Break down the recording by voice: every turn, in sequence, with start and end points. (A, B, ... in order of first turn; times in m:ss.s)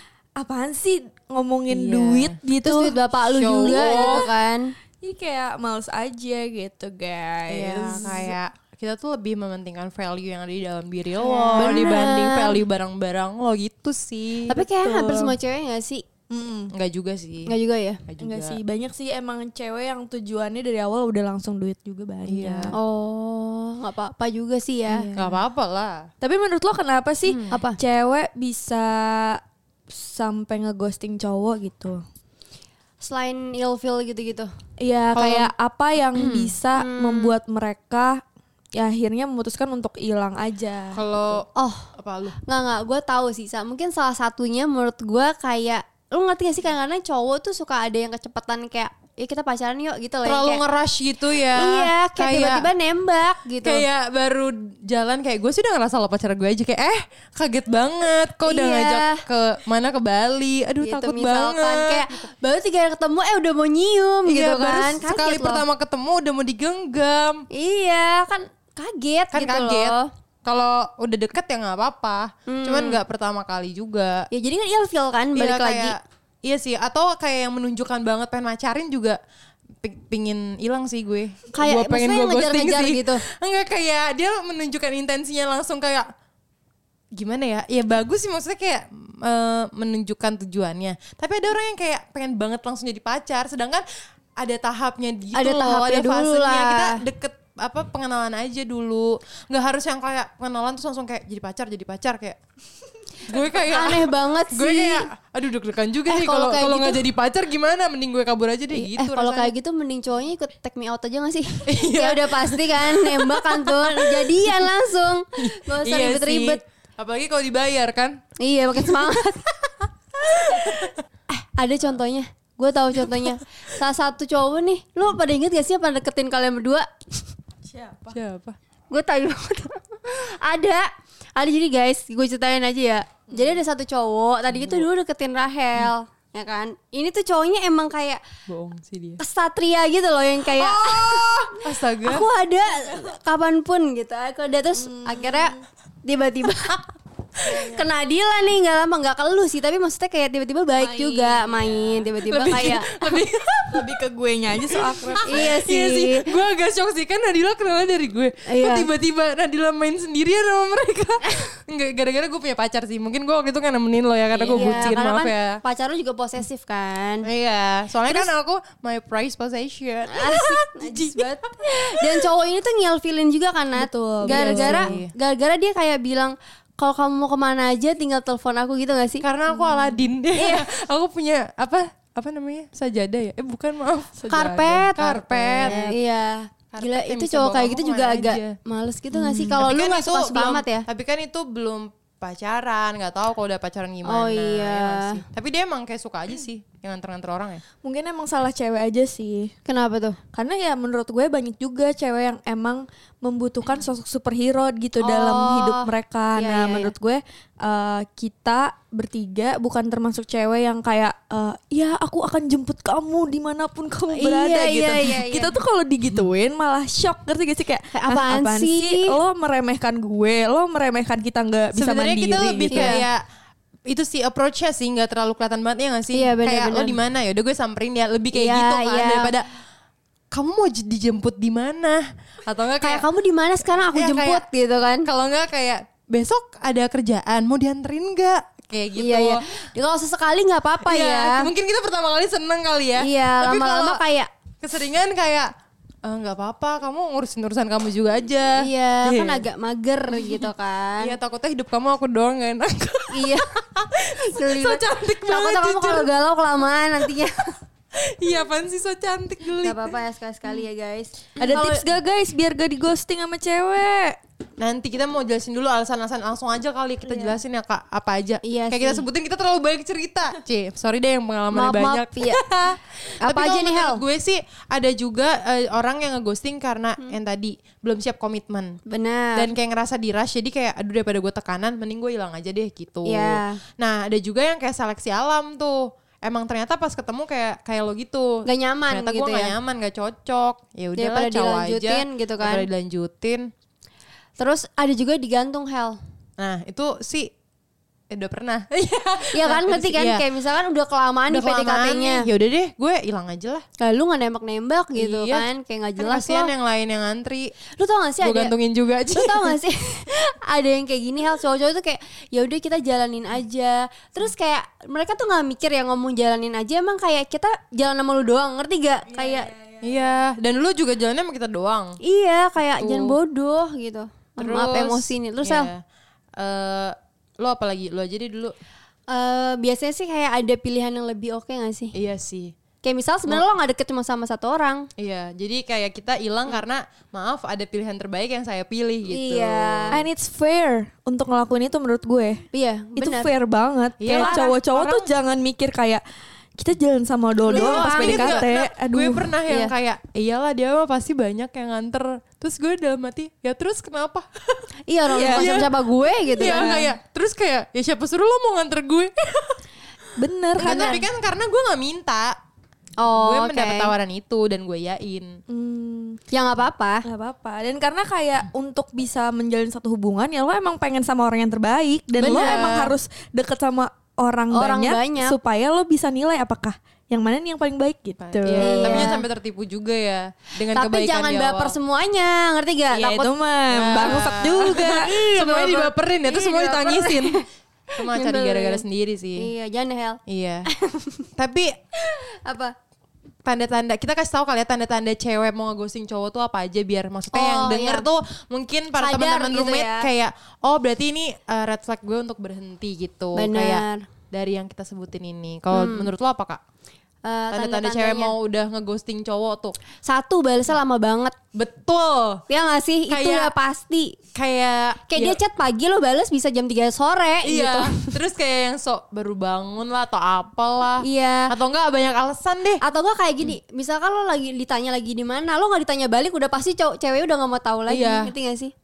0:00.4-0:03.0 A
0:01.7-0:02.4 B
0:02.6-0:04.7 C
0:03.4-0:04.3 B
0:03.5-0:04.3 A
0:05.0-0:08.3 A
0:07.5-0:14.6 B
0:11.2-0:12.1 A
0:11.6-0:12.6 C
0:14.5-0:16.0 C
0:14.7-0:15.4 A
0:16.3-0:16.7 A
0:16.7-0:17.5 B
0:17.5-0:18.0 C
0:18.0-0:18.6 B
0:18.2-0:22.7 A
0:22.2-0:22.8 B
0:22.7-0:25.1 C
0:24.9-0:25.4 A
0:25.1-0:26.1 B
0:26.2-0:32.0 A
0:27.3-0:27.5 B
0:27.5-0:27.8 C
0:33.0-0:34.5 C
0:34.8-0:38.2 A
0:35.1-0:35.5 B
0:36.2-0:36.5 B
0:36.8-0:37.3 C
0:38.8-0:41.0 A
0:40.9-0:42.4 B
0:41.5-0:41.9 C
0:42.4-0:50.6 C
0:50.2-0:52.7 B
0:51.5-0:53.8 C
0:53.6-1:02.2 B
0:58.4-0:59.2 C
1:00.8-1:05.6 C
1:04.2-1:07.5 B
1:07.5-1:10.1 C
1:09.3-1:14.3 B
1:12.5-1:13.0 C
1:14.3-1:16.0 C
1:15.3-1:19.2 B
1:19.8-1:26.1 B
1:21.5-1:23.2 C
1:27.2-1:33.8 B
1:34.4-1:42.4 B
1:35.3-1:37.0 C
1:43.2-1:49.5 B
1:43.4-1:45.1 C
1:46.1-1:47.0 C
1:48.7-1:56.6 C
1:51.6-1:54.7 B
1:55.4-1:58.2 B
1:58.4-1:59.4 C
1:58.8-2:01.0 B
2:01.3-2:06.9 C
2:07.7-2:08.2 A
2:08.1-2:08.6 B
2:08.9-2:18.2 C
2:14.5-2:14.9 B
2:18.5-2:19.2 B
2:19.2-2:26.8 C
2:20.5-2:22.3 B
2:24.8-2:25.6 A
2:27.5-2:33.0 C
2:30.8-2:35.6 A
2:32.4-2:33.9 B
2:34.7-2:45.6 B
2:35.2-2:36.3 C
2:38.5-2:38.9 C
2:44.4-2:47.3 C
2:47.2-2:52.3 B
2:50.1-2:59.2 C
2:53.7-2:54.9 A
2:54.2-2:55.1 B
2:59.2-3:05.9 B
3:00.4-3:00.7 C
3:04.3-3:10.9 C
3:05.6-3:05.9 A
3:06.7-3:08.6 B
3:09.1-3:17.6 B
3:14.0-3:15.2 C
3:17.8-3:19.5 A
3:19.6-3:20.2 C
3:20.3-3:43.0 A
3:25.0-3:26.9 C
3:34.1-3:35.6 C
3:37.9-3:39.2 C
3:41.7-3:43.2 B
3:42.7-3:43.0 C
3:43.9-3:49.4 B
3:46.1-3:47.0 C
3:48.3-3:49.3 C
3:50.3-3:53.0 B
3:52.8-3:55.1 C
3:53.9-3:54.4 B
3:55.0-3:59.4 B
3:59.0-4:01.5 C
4:00.8-4:04.0 B
4:03.0-4:04.3 C
4:04.6-4:05.5 B
4:06.0-4:09.4 B
4:08.6-4:11.1 C
4:10.1-4:10.5 B
4:11.0-4:16.1 B
4:13.1-4:13.5 C
4:14.0-4:17.5 C
4:18.0-4:20.0 B
4:19.6-4:21.9 C
4:21.4-4:24.2 A
4:24.6-4:38.8 B
4:28.4-4:29.0 C
4:31.5-4:32.4 C
4:33.2-4:34.0 C
4:38.8-4:39.5 C
4:39.3-4:53.5 B
4:43.0-4:43.6 C
4:48.4-4:49.5 C
4:51.0-4:52.7 C
4:54.4-4:56.0 C
4:56.4-4:57.3 B
4:58.1-5:00.2 B
4:59.3-5:02.3 C
5:01.3-5:03.6 B
5:03.8-5:06.5 C
5:04.9-5:05.4 B
5:06.0-5:07.5 B
5:07.7-5:08.5 C
5:08.2-5:09.6 B
5:09.1-5:19.5 C
5:19.8-5:22.0 B
5:22.0-5:25.7 C
5:22.8-5:23.2 B
5:24.4-5:25.8 B
5:26.4-5:28.5 B
5:29.1-5:31.9 C
5:31.9-5:32.5 B
5:32.8-5:34.9 C
5:35.0-5:40.0 B
5:39.1-5:40.0 C
5:39.9-5:42.4 A
5:42.5-5:43.3 C
5:43.0-5:46.0 A
5:44.0-5:45.1 B
5:44.1-5:44.4 C
5:46.6-5:49.3 A
5:47.5-5:54.6 B
5:47.5-5:48.5 C
5:49.5-5:49.7 C
5:54.9-5:56.8 C
5:55.1-5:55.6 A
5:55.2-5:55.7 B
5:56.4-5:59.6 B
5:56.4-5:56.9 A
6:00.2-6:01.0 A
6:00.6-6:01.0 C
6:00.6-6:02.4 B
6:03.0-6:03.9 C
6:03.1-6:05.4 B
6:05.5-6:06.2 A
6:06.3-6:07.0 C
6:07.0-6:19.2 A
6:12.2-6:12.9 B
6:12.2-6:12.8 C
6:14.5-6:15.4 C
6:18.2-6:21.8 B
6:18.6-6:19.2 C
6:20.7-6:23.3 C
6:22.9-6:25.1 A
6:23.7-6:27.4 B
6:23.9-6:27.4 C
6:28.0-6:29.5 B
6:28.0-6:28.8 C
6:29.4-6:31.2 C
6:30.3-6:30.7 B
6:31.4-6:31.7 B
6:32.0-6:32.7 C
6:33.4-6:46.6 B
6:37.3-6:38.1 C
6:39.0-6:40.1 C
6:43.3-6:44.1 C
6:45.7-6:46.1 C
6:47.2-6:48.3 C
6:47.5-6:49.8 B
6:50.0-6:51.4 C
6:51.5-6:52.4 B
6:52.5-6:54.2 C
6:53.1-6:53.5 B
6:54.3-6:55.4 B
6:55.1-6:58.1 C
6:57.4-7:02.8 B
7:01.0-7:01.5 C
7:02.8-7:08.7 C
7:07.9-7:08.3 B